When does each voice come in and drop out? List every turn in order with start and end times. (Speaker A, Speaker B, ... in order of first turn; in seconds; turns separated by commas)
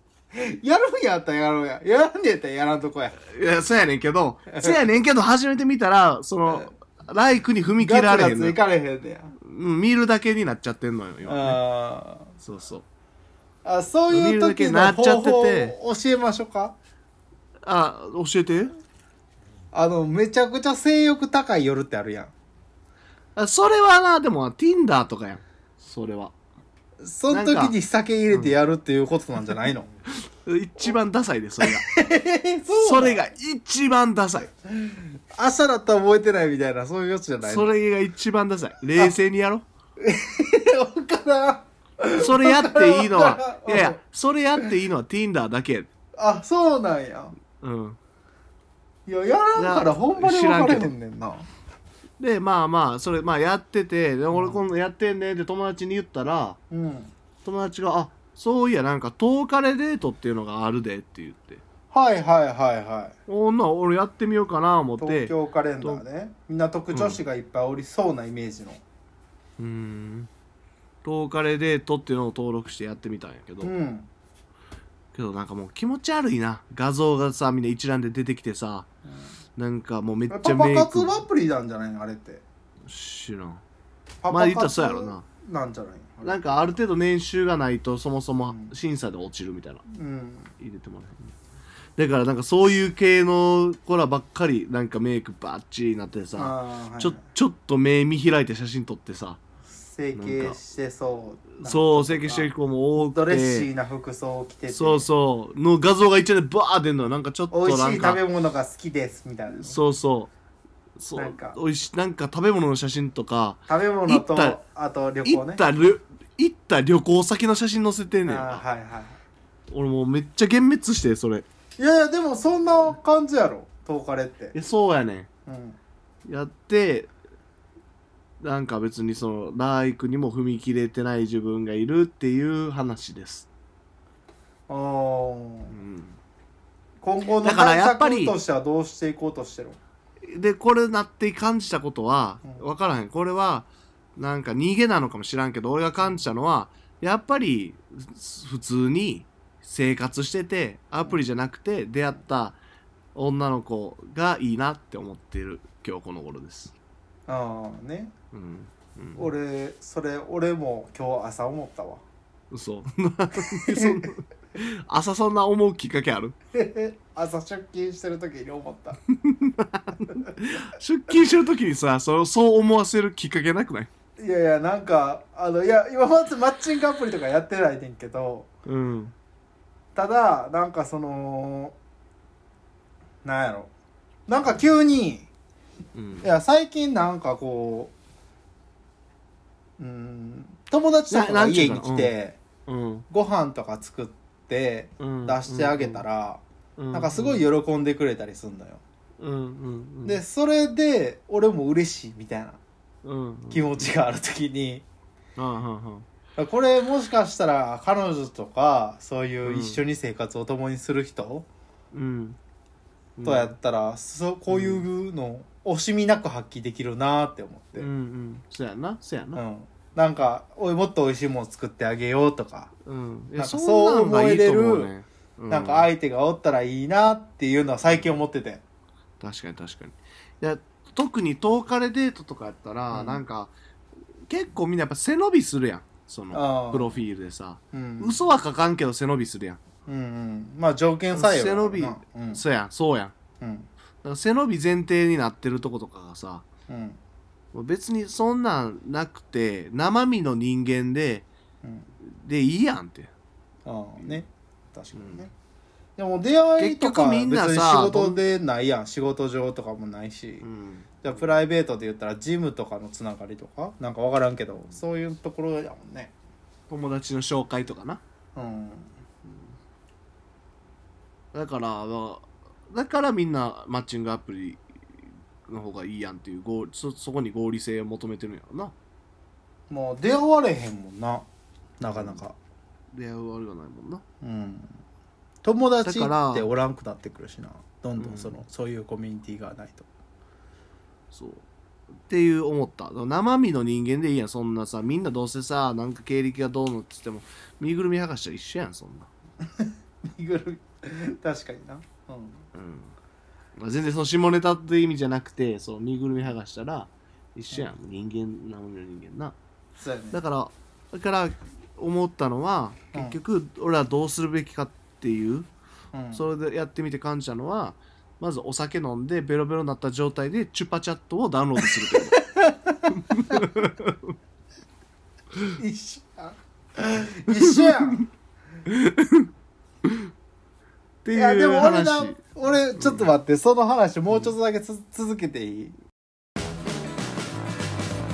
Speaker A: 0.3-3.2, Speaker B: 3.3-8.6, Speaker A: 4.5-4.8, Speaker A: 7.8-9.3, Speaker B: 9.4-11.6, Speaker A: 11.3-12.3, Speaker B: 12.4-12.8, Speaker A: 13.7-16.8, Speaker B: 14.1-15.8, Speaker B: 17.7-18.7, Speaker A: 19.7-22.3, Speaker B: 23.4-26.3, Speaker A: 27.0-29.9, Speaker B: 27.3-27.8, Speaker B: 30.4-31.9, Speaker A: 31.6-33.2, Speaker B: 32.8-34.5, Speaker A: 34.7-37.7, Speaker B: 37.4-39.6, Speaker A: 40.0-44.0, Speaker B: 42.2-45.9, Speaker A: 46.2-47.3, Speaker B: 47.6-48.0, Speaker A: 49.1-51.5, Speaker B: 49.6-50.9, Speaker B: 52.2-56.6, Speaker A: 54.3-54.6, Speaker A: 56.7-57.1, Speaker B: 57.5-61.6, Speaker A: 61.9-63.1, Speaker B: 63.3-66.0, Speaker A: 65.0-68.8, Speaker B: 66.9-67.2, Speaker B: 69.6-70.3, Speaker B: 71.0-73.7, Speaker A: 73.6-74.1, Speaker B: 75.1-78.9, Speaker B: 79.6-81.2, Speaker A: 80.3-82.4, Speaker B: 82.9-83.6, Speaker A: 84.2-86.8, Speaker B: 84.3-85.2, Speaker B: 86.2-89.8, Speaker A: 88.5-88.7, Speaker A: 89.9-90.5, Speaker B: 90.6-91.3, Speaker B: 92.0-99.4, Speaker A: 96.3-97.2, Speaker A: 99.7-102.5, Speaker B: 100.2-100.6, Speaker B: 101.6-103.7, Speaker A: 103.0-105.1, Speaker B: 104.7-108.2, Speaker A: 107.5-109.8, Speaker B: 109.5-110.3, Speaker B: 111.0-114.6, Speaker A: 111.2-111.6, Speaker A: 113.7-115.6, Speaker B: 115.2-118.6, Speaker A: 118.3-119.2, Speaker B: 119.7-121.5, Speaker A: 121.8-124.5, Speaker B: 124.5-125.3, Speaker A: 125.5-125.8, Speaker B: 126.2-127.1, Speaker B: 128.4-133.5, Speaker A: 134.7-135.7, Speaker B: 135.7-136.2, Speaker A: 137.0-139.8, Speaker B: 137.4-138.4, Speaker B: 140.3-152.6, Speaker B: 153.2-156.8, Speaker A: 157.3-158.1, Speaker B: 158.3-159.3, Speaker A: 159.2-162.0, Speaker B: 162.5-166.4, Speaker A: 163.5-164.1, Speaker A: 166.5-169.0, Speaker B: 169.1-173.9, Speaker A: 174.2-178.5, Speaker B: 178.7-179.1, Speaker A: 179.9-181.8, Speaker A: 183.2-183.7, Speaker A: 184.3-185.3, Speaker B: 185.9-186.3, Speaker A: 186.2-187.9, Speaker A: 189.8-192.4, Speaker B: 191.1-192.1, Speaker B: 192.7-193.1, Speaker A: 193.1-198.8, Speaker B: 195.0-196.0, Speaker B: 196.8-197.4, Speaker B: 199.2-200.2, Speaker A: 200.1-202.6, Speaker B: 203.1-203.9, Speaker A: 203.5-204.8, Speaker B: 205.4-206.1, Speaker A: 206.4-211.5, Speaker B: 209.4-209.8, Speaker B: 211.9-212.4, Speaker B: 213.2-213.6, Speaker A: 213.2-217.9, Speaker B: 214.5-214.8, Speaker B: 217.8-219.4, Speaker A: 219.3-222.7, Speaker B: 222.9-225.9, Speaker A: 223.4-224.9, Speaker A: 225.5-228.6, Speaker B: 227.8-228.2, Speaker B: 229.2-233.5, Speaker A: 232.9-233.2, Speaker B: 234.3-239.6, Speaker A: 236.3-237.1, Speaker A: 237.7-238.2, Speaker A: 239.9-242.4, Speaker B: 241.1-243.1, Speaker A: 243.4-243.7, Speaker B: 244.0-246.4, Speaker A: 246.7-247.0, Speaker B: 247.5-251.3, Speaker B: 252.0-253.1, Speaker A: 253.7-255.3, Speaker B: 254.9-255.3, Speaker A: 256.0-260.4, Speaker B: 256.6-258.2, Speaker B: 260.4-261.4, Speaker A: 261.0-266.1, Speaker B: 266.7-268.0, Speaker A: 268.4-268.9, Speaker B: 271.3-274.6, Speaker B: 275.5-278.7, Speaker A: 279.7-281.3, Speaker A: 281.8-282.4, Speaker B: 281.9-282.2, Speaker B: 282.9-284.0, Speaker A: 284.2-284.7, Speaker A: 285.4-289.9, Speaker B: 285.9-286.5, Speaker B: 288.0-288.4, Speaker B: 291.1-291.4, Speaker B: 292.1-299.1, Speaker A: 299.6-302.4, Speaker B: 302.6-302.9, Speaker B: 303.6-309.4, Speaker A: 309.8-310.2, Speaker B: 310.1-315.5, Speaker A: 315.9-316.2, Speaker B: 316.1-322.2, Speaker A: 322.1-323.4, Speaker B: 322.9-324.1, Speaker A: 325.6-328.0, Speaker B: 327.5-328.0, Speaker B: 328.7-329.3, Speaker B: 331.0-332.2, Speaker A: 331.1-335.8, Speaker B: 332.8-333.1